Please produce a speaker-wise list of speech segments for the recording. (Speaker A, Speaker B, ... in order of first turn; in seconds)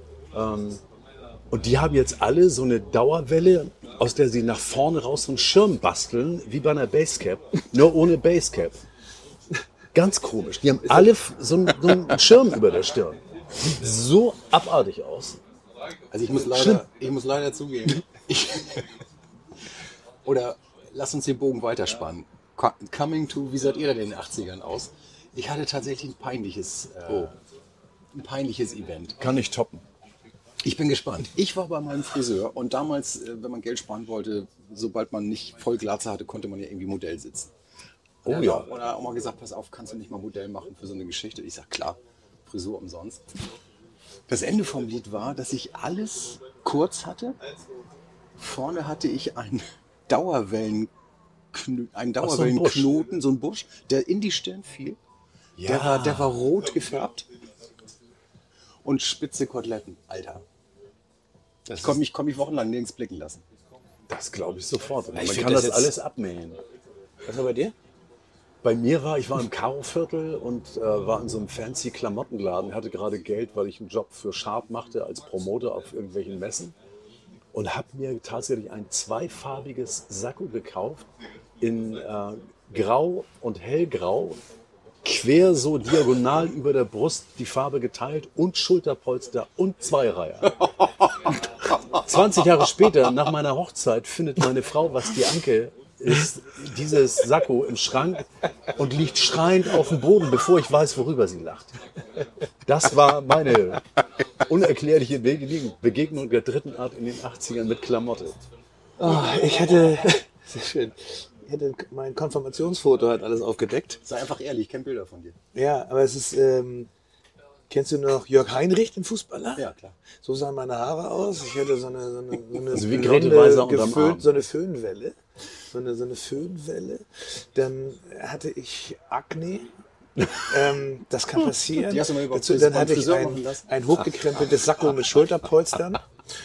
Speaker A: 0.3-0.8, 1.5-8.8, 9.9-15.4, 16.4-16.8, 29.2-29.8, 38.2-38.7, 52.2-52.9, 55.6-56.3, 64.1-66.6, 68.6-76.7, 77.5-81.1, 81.6-84.4, 85.0-90.7, 91.9-101.8, 102.6-103.8, 104.4-108.4, 122.7-124.3
Speaker B: 16.1-18.8, 20.2-27.3, 28.1-29.2, 30.6-37.5, 38.2-43.2, 44.3-47.4, 48.4-50.9, 51.5-55.0, 55.6-57.2, 58.8-60.4, 61.8-63.4, 114.0-115.3, 119.5-120.0, 131.8-133.7
Speaker C: 61.7-61.9, 65.2-65.9, 67.2-67.7, 109.0-114.0, 115.5-116.9, 117.7-119.6, 120.2-125.2, 125.7-129.7, 130.4-136.0